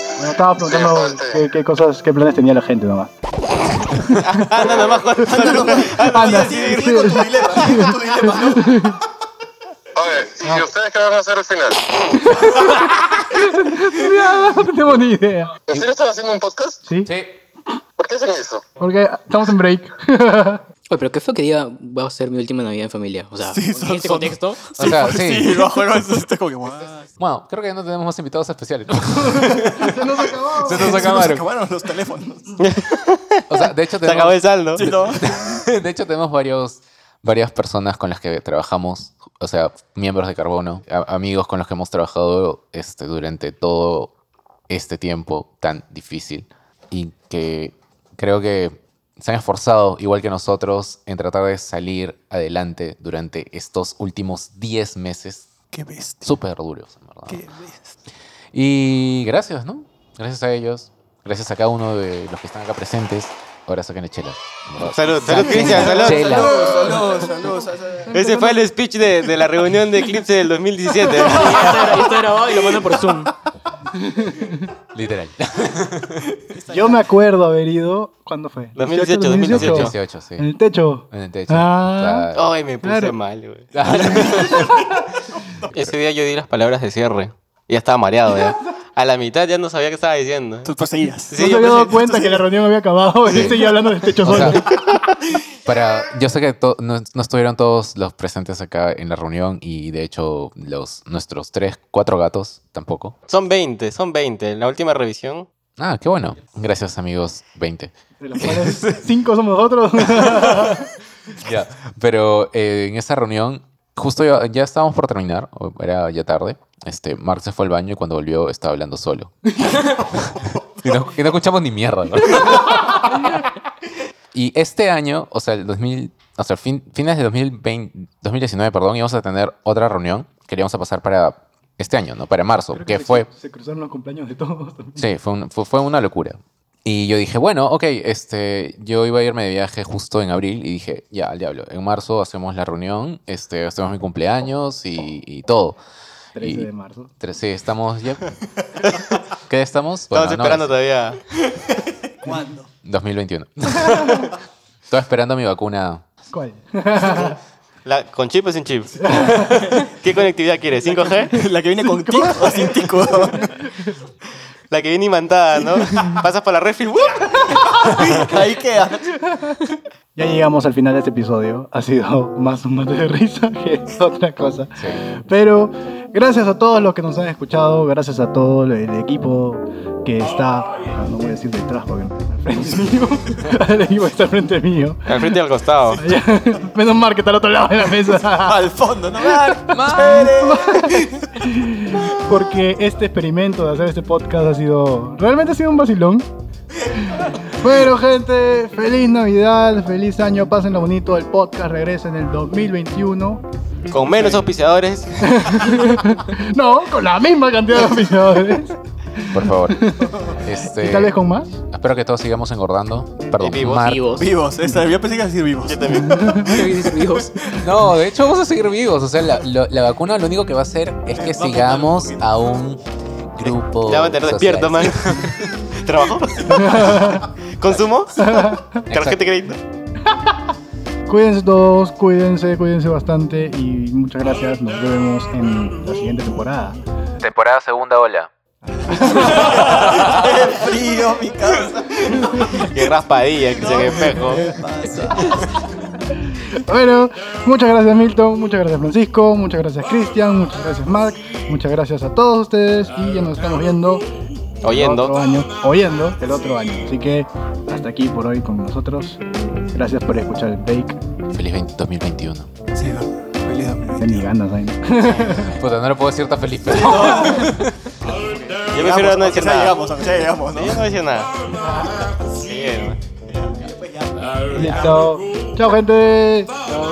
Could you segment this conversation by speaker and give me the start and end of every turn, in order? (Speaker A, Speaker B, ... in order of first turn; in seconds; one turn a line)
Speaker A: 0.2-3.1
Speaker B: 0.6-1.4
Speaker C: 4.1-6.9
Speaker D: 5.2-8.8
Speaker A: 5.3-9.0
Speaker B: 10.0-12.0
Speaker A: 12.2-15.6
Speaker B: 15.7-16.8
Speaker A: 16.9-17.1
Speaker E: 17.1-17.4
Speaker B: 18.0-18.6
Speaker A: 18.8-20.6
Speaker F: 20.9-24.9
Speaker D: 23.4-27.1
Speaker E: 24.8-25.7
Speaker E: 27.2-29.9
Speaker A: 29.4-31.0
Speaker E: 30.6-31.4
Speaker D: 30.7-32.5
Speaker C: 32.6-33.4
Speaker E: 33.5-44.1
Speaker C: 34.0-34.9
Speaker D: 34.8-35.3
Speaker E: 44.7-55.5
Speaker D: 55.7-56.4
Speaker E: 56.2-57.4
Speaker D: 57.3-58.0
Speaker E: 58.5-66.5
Speaker C: 64.8-66.6
Speaker D: 65.3-68.2
Speaker A: 66.2-67.3
Speaker A: 68.1-68.6
Speaker C: 68.1-72.1
Speaker F: 71.3-73.3
Speaker D: 72.5-73.0
Speaker A: 73.9-74.7
Speaker E: 74.9-76.2
Speaker D: 76.5-77.0
Speaker A: 76.7-82.3
Speaker C: 78.8-80.0
Speaker E: 79.5-80.5
Speaker E: 81.1-82.5
Speaker C: 82.3-84.2
Speaker A: 82.8-83.2
Speaker E: 83.7-84.8
Speaker A: 84.0-84.9
Speaker C: 85.7-90.7
Speaker D: 90.6-92.5
Speaker C: 91.3-91.9
Speaker A: 91.4-94.7
Speaker D: 93.3-93.7
Speaker E: 94.2-94.6
Speaker E: 95.6-103.1
Speaker C: 103.3-105.5
Speaker E: 105.8-108.9
Speaker A: 108.2-110.8
Speaker E: 110.2-110.8
Speaker E: 111.4-119.5
Speaker E: 120.6-123.2
Speaker E: 124.3-133.3
Speaker A: 132.7-135.1
Speaker E: 135.0-145.8
Speaker A: 146.4-147.1
Speaker E: 146.4-148.2
Speaker C: 148.8-149.1
Speaker E: 149.5-150.8
Speaker C: 150.1-151.2
Speaker D: 151.5-152.7
Speaker E: 152.8-154.3
Speaker E: 154.9-156.0
Speaker A: 156.3-157.4
Speaker C: 157.8-161.3
Speaker A: 159.0-159.8
Speaker D: 161.2-163.6
Speaker A: 161.8-163.9
Speaker C: 164.7-167.5
Speaker D: 167.8-169.3
Speaker A: 170.2-185.3
Speaker E: 174.8-175.0
Speaker C: 185.1-186.0
Speaker A: 186.0-188.6
Speaker D: 188.3-191.3
Speaker A: 189.2-196.3
Speaker E: 189.7-190.3
Speaker A: 196.9-203.4
Speaker C: 203.9-205.7
Speaker D: 204.0-204.5
Speaker A: 205.2-211.5
Speaker E: 209.3-209.8
Speaker E: 210.4-211.2
Speaker E: 211.7-214.2
Speaker C: 213.4-213.9
Speaker F: 213.8-214.3
Speaker D: 214.2-217.7
Speaker C: 215.6-216.3
Speaker A: 215.9-216.5
Speaker F: 216.5-217.4
Speaker E: 217.6-222.8
Speaker D: 221.2-222.3
Speaker E: 223.3-225.4
Speaker C: 223.4-228.3
Speaker D: 226.6-227.1
Speaker A: 226.6-227.2
Speaker A: 228.3-228.6
Speaker E: 228.9-229.3
Speaker C: 228.9-229.6
Speaker A: 231.1-236.8
Speaker E: 237.2-238.3
Speaker A: 238.8-239.7
Speaker D: 238.9-242.7
Speaker A: 242.2-242.6
Speaker C: 242.6-244.5
Speaker D: 243.4-245.5
Speaker A: 246.4-254.1
Speaker C: 254.6-255.1
Speaker A: 254.7-261.0
Speaker E: 261.3-262.5
Speaker D: 262.7-264.3
Speaker A: 264.0-265.5
Speaker E: 265.3-267.8
Speaker D: 266.6-267.5
Speaker C: 268.1-271.3
Speaker D: 268.7-270.9
Speaker A: 271.5-272.0
Speaker C: 272.2-273.0
Speaker D: 273.3-275.0
Speaker A: 274.5-276.7